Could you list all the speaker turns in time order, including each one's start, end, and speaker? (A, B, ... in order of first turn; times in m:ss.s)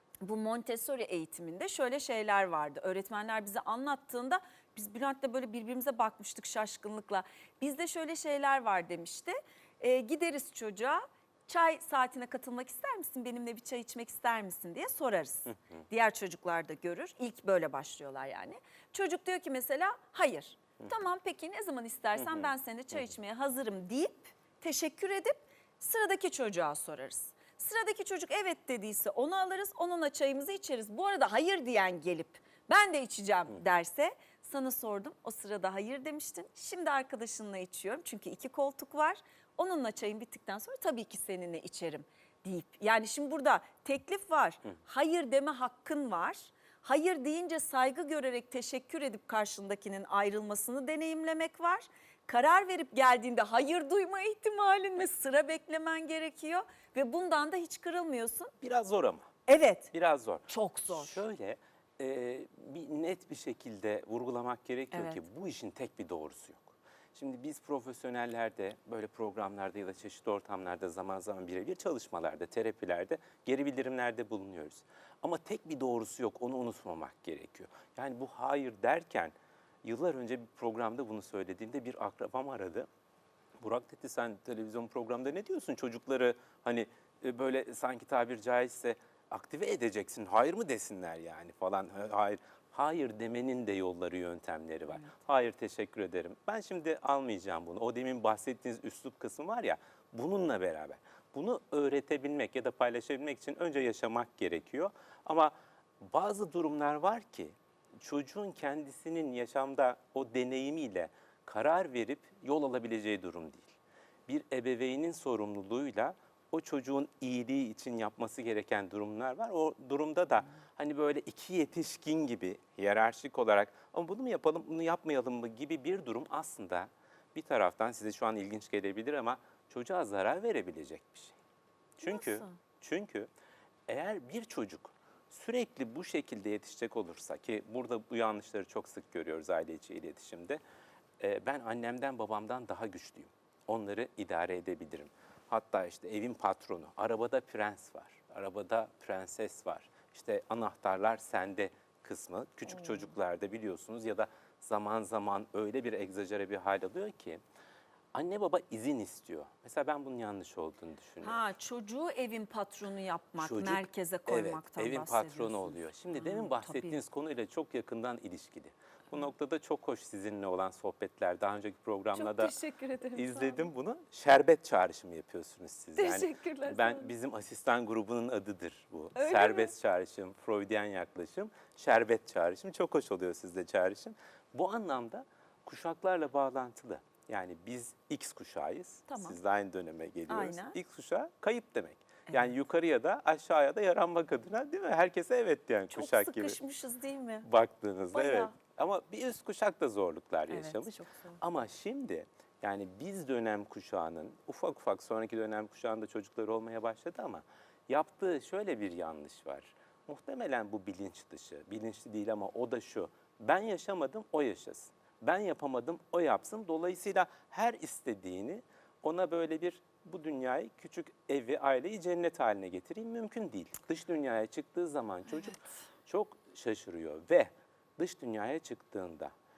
0:00.2-0:58.5 A
0:22.2-0:22.5 B
0:58.6-0:59.2 B
0:59.5-0:59.9 A
0:59.9-1:22.9 B
1:00.5-1:01.2 A
1:04.9-1:05.2 A
1:23.6-1:53.8 B
1:54.3-2:11.4 B
2:12.0-2:12.6 A
2:12.0-2:13.3 B
2:13.9-2:20.6 B
2:21.2-2:37.4 B
2:32.8-2:33.1 A
2:38.1-2:41.4 B
2:41.2-2:47.0 A
2:43.4-2:52.6 B
2:52.1-2:53.7 A
2:53.1-3:16.6 B
2:56.0-2:57.1 A
2:59.1-2:59.7 A
3:09.1-3:09.4 A
3:10.3-3:10.8 A
3:12.3-3:12.5 A
3:15.9-3:17.5 A
3:17.4-3:49.3 B
3:18.1-3:18.6 A
3:20.5-3:21.4 A